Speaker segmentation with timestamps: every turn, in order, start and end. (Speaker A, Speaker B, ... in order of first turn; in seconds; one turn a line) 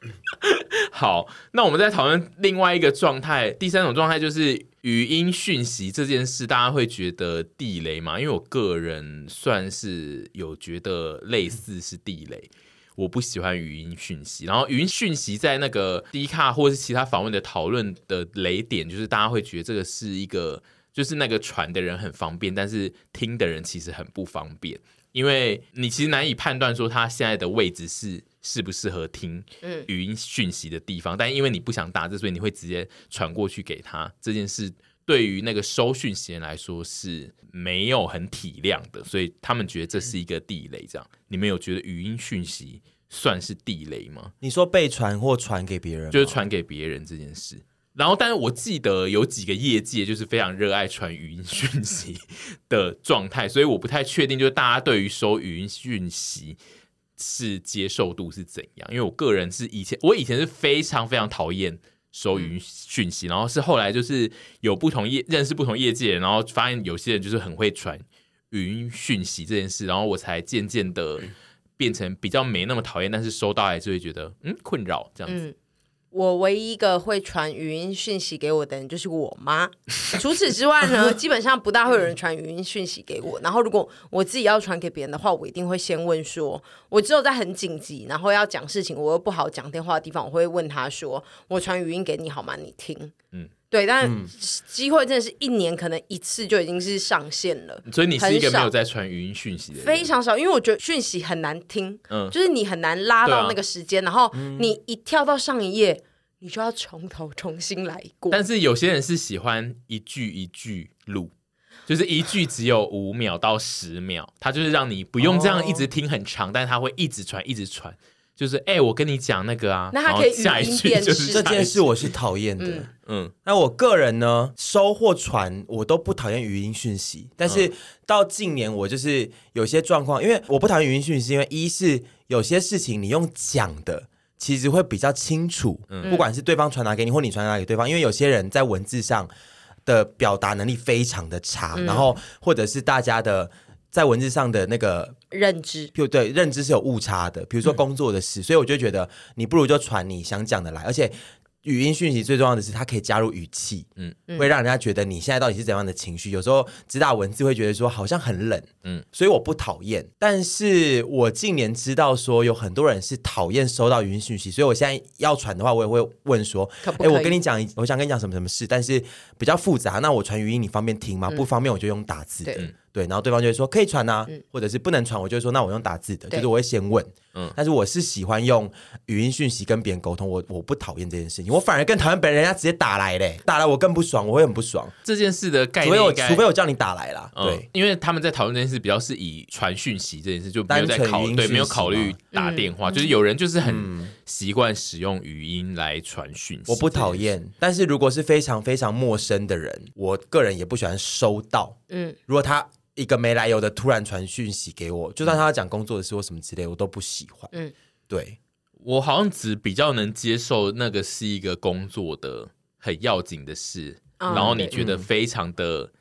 Speaker A: 0.4-44.3
Speaker B: 29.6-29.9
Speaker C: 44.4-46.4
Speaker A: 46.1-56.6
Speaker A: 57.2-75.4
Speaker B: 75.3-75.5
Speaker B: 76.1-93.1
Speaker B: 93.7-98.7
Speaker C: 94.0-94.3
Speaker A: 97.8-100.1
Speaker B: 99.8-108.4
Speaker A: 103.2-103.6
Speaker C: 104.3-104.7
Speaker A: 108.3-111.3
Speaker A: 111.9-121.9
Speaker C: 115.2-115.8
Speaker B: 119.9-121.5
Speaker C: 121.3-122.9
Speaker B: 122.6-122.9
Speaker A: 123.0-123.3
Speaker C: 123.4-139.3
Speaker A: 135.9-136.2
Speaker C: 139.8-145.1
Speaker B: 141.7-142.1
Speaker B: 145.3-145.9
Speaker C: 145.9-184.9
Speaker B: 166.8-167.3
Speaker A: 185.0-186.4
Speaker C: 185.8-187.7
Speaker A: 187.3-197.3
Speaker C: 190.7-192.2
Speaker B: 192.3-193.1
Speaker C: 193.6-194.1
Speaker C: 196.7-201.8
Speaker B: 201.9-202.2
Speaker C: 202.3-207.5
Speaker C: 208.1-208.4
Speaker A: 208.8-215.9
Speaker B: 214.2-214.8
Speaker C: 214.3-215.1